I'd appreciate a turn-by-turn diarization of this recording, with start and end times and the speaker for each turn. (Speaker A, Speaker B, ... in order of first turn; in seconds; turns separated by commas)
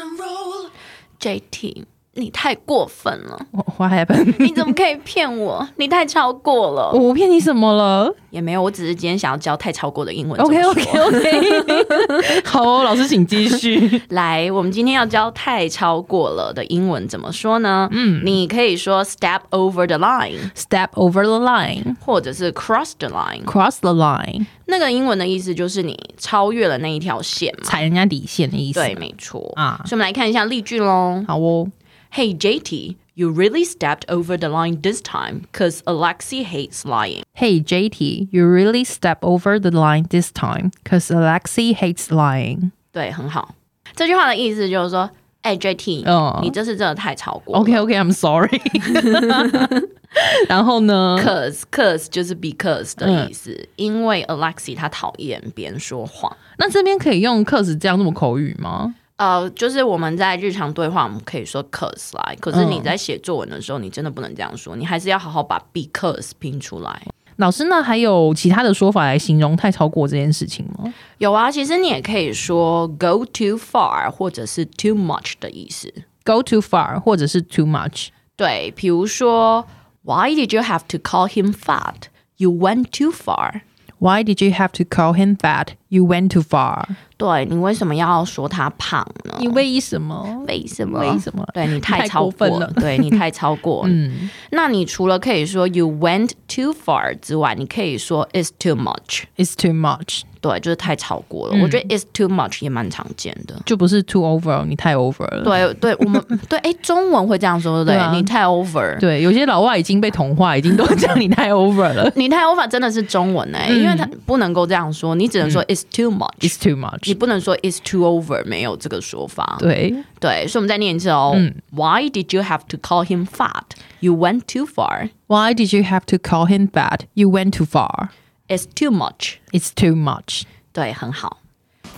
Speaker A: 1.2-3.5, Speaker B: 3.5-4.7, Speaker A: 4.3-7.0, Speaker B: 6.9-8.2, Speaker A: 8.3-12.3, Speaker B: 10.4-14.0, Speaker A: 14.0-20.5, Speaker B: 17.9-18.4, Speaker B: 20.5-22.0, Speaker A: 22.0-23.5, Speaker B: 23.4-24.5, Speaker A: 24.6-27.8, Speaker B: 27.6-28.9, Speaker A: 28.7-31.3, Speaker B: 29.6-29.9, Speaker B: 31.3-31.7, Speaker A: 32.1-37.2, Speaker B: 37.4-42.7, Speaker A: 42.9-47.8, Speaker B: 46.0-46.5, Speaker B: 47.5-51.3, Speaker A: 49.4-49.7, Speaker A: 51.1-56.4, Speaker B: 53.0-53.3, Speaker B: 56.6-58.9, Speaker A: 59.2-67.1, Speaker B: 62.5-62.9, Speaker B: 67.4-70.9, Speaker A: 71.2-76.0, Speaker B: 76.2-78.1, Speaker A: 78.3-83.6, Speaker B: 84.0-87.0, Speaker A: 87.2-89.6, Speaker B: 89.4-93.2, Speaker A: 90.4-99.3, Speaker B: 93.8-94.3, Speaker B: 99.4-100.2, Speaker A: 100.4-103.7, Speaker B: 101.5-101.9, Speaker B: 103.7-106.2, Speaker A: 105.4-109.0, Speaker B: 107.8-108.3, Speaker B: 109.0-112.1, Speaker A: 112.1-119.6, Speaker B: 113.7-114.1, Speaker B: 116.4-117.2, Speaker B: 119.6-120.0, Speaker A: 120.2-125.1, Speaker B: 121.3-121.6, Speaker B: 125.3-128.1, Speaker A: 128.5-129.4, Speaker B: 129.5-130.4, Speaker A: 130.7-131.4